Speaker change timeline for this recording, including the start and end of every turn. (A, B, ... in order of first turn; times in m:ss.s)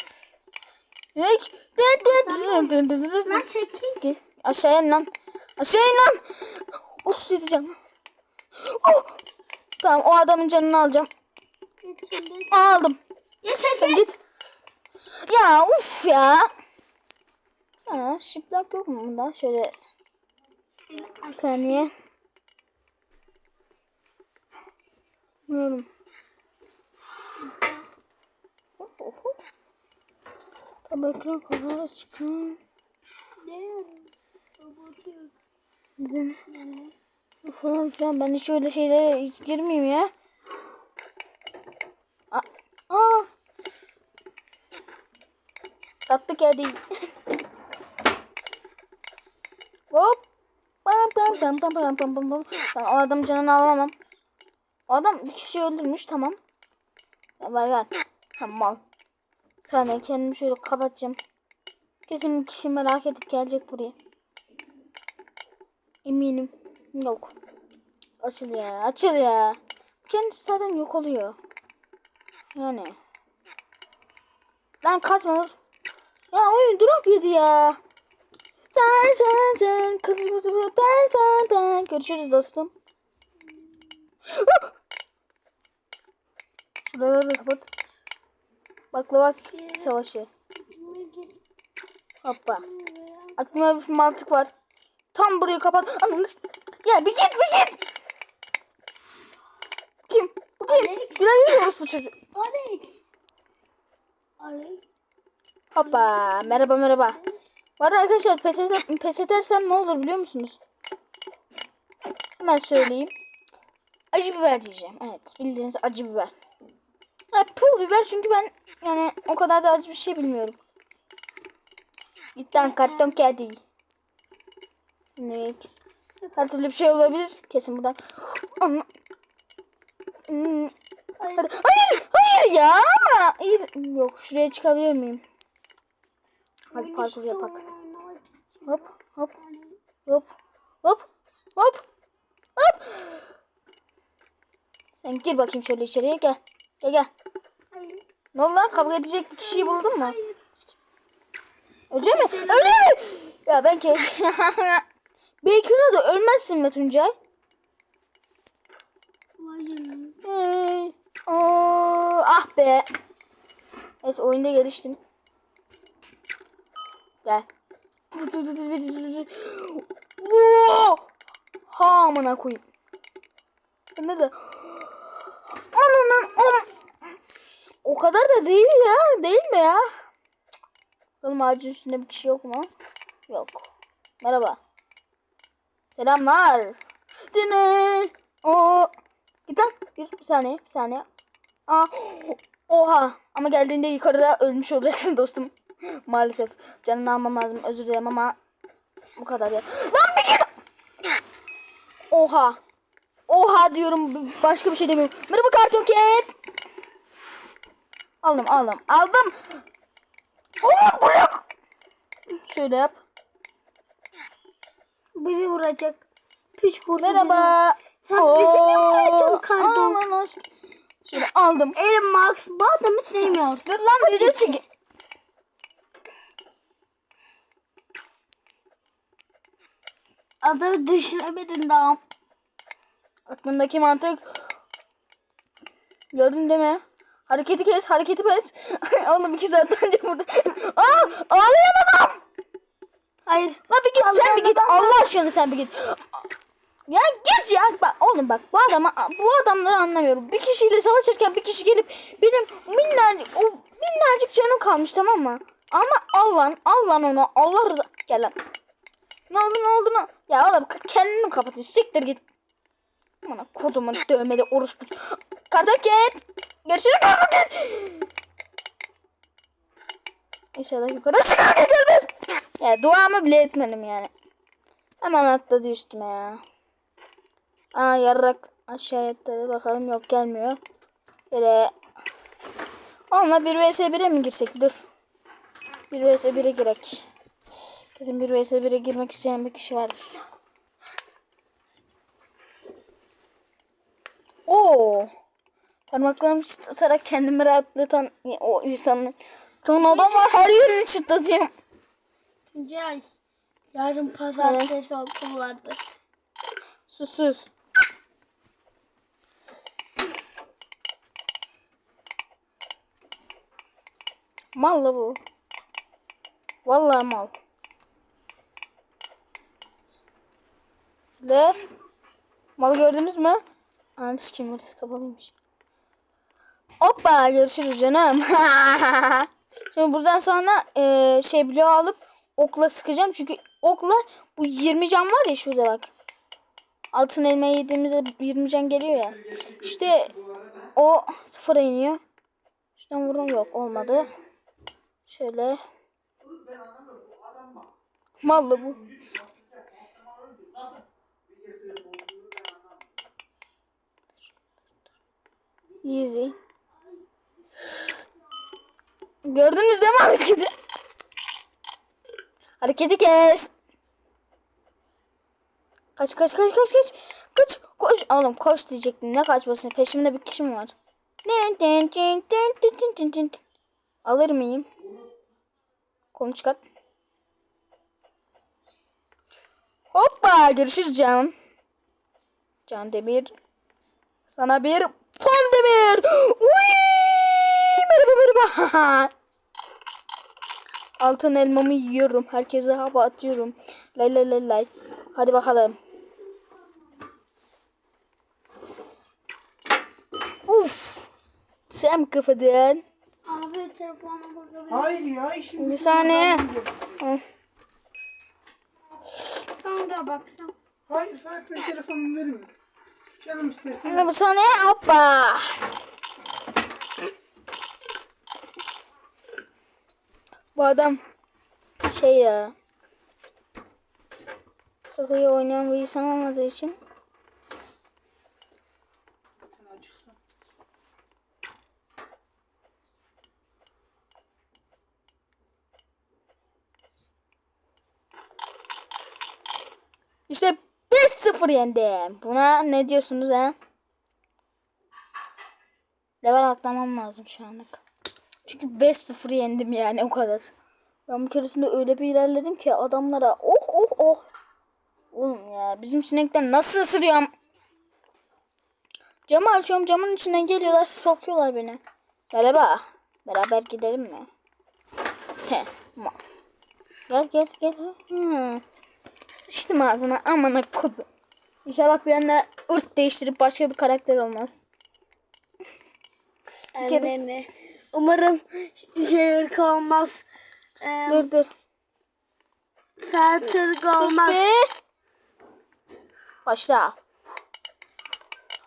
0:01.2-0:03.4 A
0:02.0-0:02.8 B
0:03.3-0:04.0 B
0:04.0-0:07.8 A
0:08.6-0:09.2 A
0:09.8-0:11.1 A
0:11.8-0:12.7 B
0:12.5-0:14.2 A
0:13.6-0:14.0 B
0:15.3-0:16.5 A
0:17.8-0:19.8 A
0:20.8-0:21.9 B
0:21.3-0:21.9 A
0:25.5-0:25.9 A
0:27.4-0:27.8 B
0:28.8-0:29.3 A
0:30.9-0:32.6 A
0:33.4-0:35.3 B
0:36.0-0:36.4 A
0:36.5-0:36.9 B
0:37.4-0:40.1 A
0:42.3-0:43.3 A
0:46.1-0:46.8 A
0:49.9-0:50.2 A
0:50.8-0:53.9 A
0:54.9-0:56.4 A
0:57.4-0:58.8 A
0:59.6-1:01.2 A
1:02.1-1:04.0 A
1:06.0-1:07.3 A
1:08.2-1:11.4 A
1:12.5-1:13.0 A
1:14.8-1:15.6 A
1:16.3-1:17.8 A
1:18.7-1:22.7 A
1:23.6-1:23.8 B
1:24.3-1:24.7 A
1:26.8-1:27.7 A
1:28.9-1:30.3 A
1:29.5-1:29.9 B
1:30.7-1:31.4 B
1:32.2-1:32.6 A
1:32.5-1:33.6 B
1:33.4-1:34.5 A
1:35.1-1:37.8 A
1:40.1-1:42.1 A
1:40.7-1:41.2 B
1:42.3-1:43.0 B
1:44.4-1:44.8 B
1:45.7-1:47.2 A
1:45.8-1:47.3 B
1:47.8-1:50.6 A
1:52.4-1:53.1 A
1:54.1-1:56.3 A
1:57.3-2:00.6 A
2:02.4-2:03.6 A
2:02.6-2:03.2 B
2:05.2-2:05.7 A
2:06.2-2:06.5 B
2:06.4-2:08.9 A
2:10.3-2:10.7 A
2:11.2-2:11.5 B
2:11.4-2:15.2 A
2:16.7-2:19.8 B
2:16.7-2:17.6 A
2:18.7-2:19.3 A
2:20.8-2:21.8 A
2:22.6-2:23.2 A
2:25.0-2:27.1 A
2:27.7-2:28.0 B
2:28.4-2:30.2 A
2:28.7-2:30.5 B
2:31.9-2:34.8 A
2:32.0-2:32.9 B
2:35.4-2:37.1 A
2:39.4-2:40.2 B
2:40.2-2:42.9 A
2:44.0-2:45.0 A
2:48.1-2:51.1 A
2:51.7-2:52.6 A
2:54.0-2:55.1 A
2:55.6-2:56.7 A
2:57.8-2:59.9 A
3:01.2-3:02.7 A
3:03.3-3:03.7 A
3:04.2-3:04.6 A
3:05.9-3:06.8 A
3:07.3-3:08.9 A
3:09.5-3:11.1 A
3:11.7-3:18.4 A
3:19.2-3:20.5 A
3:22.1-3:22.6 A
3:23.3-3:26.3 A
3:28.2-3:29.6 A
3:30.6-3:31.4 A
3:32.4-3:33.0 A
3:35.2-3:36.0 B
3:36.6-3:40.0 B
3:37.0-3:40.4 A
3:41.0-3:41.8 A
3:41.8-3:44.6 B
3:43.2-3:44.6 A
3:50.4-3:52.0 B
3:53.3-3:54.4 A
3:56.1-4:02.2 A
4:03.3-4:05.0 B
4:03.7-4:06.2 A
4:06.9-4:18.4 A
4:19.3-4:22.2 A
4:23.2-4:28.1 A
4:30.6-4:34.1 A
4:35.0-4:36.4 A
4:37.7-4:40.6 A
4:41.3-4:41.7 A
4:43.1-4:44.8 A
4:45.9-4:47.0 A
4:48.0-4:50.2 A
4:54.5-4:55.1 A
4:55.9-5:01.5 A
4:59.8-5:00.4 B
5:02.5-5:03.2 B
5:03.7-5:05.9 B
5:04.4-5:04.7 A
5:06.9-5:07.5 A
5:14.5-5:15.2 A
5:16.6-5:17.4 A
5:21.2-5:21.6 A
5:22.6-5:23.4 A
5:24.0-5:25.3 A
5:26.8-5:35.9 A
5:36.9-5:40.2 A
5:40.8-5:42.0 A
5:42.8-5:44.1 A
5:45.1-5:45.6 A
5:48.2-5:48.8 A
5:51.3-5:52.4 C
5:55.8-5:56.4 A
5:59.2-6:00.5 A
6:02.6-6:03.5 A
6:06.0-6:10.7 A
6:11.2-6:13.4 A
6:14.0-6:14.7 A
6:16.1-6:16.6 A
6:19.9-6:21.3 A
6:22.7-6:23.3 A
6:24.3-6:29.1 A
6:31.0-6:35.8 A
6:40.5-6:41.1 A
6:41.7-6:42.8 A
6:43.2-6:45.1 B
6:44.7-6:46.7 C
6:45.6-6:46.5 A
6:49.4-6:50.5 B
6:50.9-6:52.5 C
6:53.2-6:54.1 C
6:53.8-6:55.6 A
7:00.6-7:01.0 A
7:01.8-7:02.5 A
7:05.0-7:06.8 A
7:09.5-7:10.1 C
7:20.3-7:23.6 A
7:26.2-7:27.8 A
7:28.4-7:30.5 A
7:31.1-7:34.2 A
7:35.1-7:37.3 A
7:39.3-7:41.8 A
7:42.3-7:44.3 A
7:45.5-7:46.2 A
7:47.1-7:48.6 A
7:49.4-7:51.0 A
7:51.6-7:54.6 A
7:56.7-8:00.2 B
7:56.8-7:57.2 A
8:00.8-8:01.3 B
8:01.1-8:01.5 A
8:03.0-8:04.4 B
8:04.0-8:04.6 A
8:06.4-8:07.0 A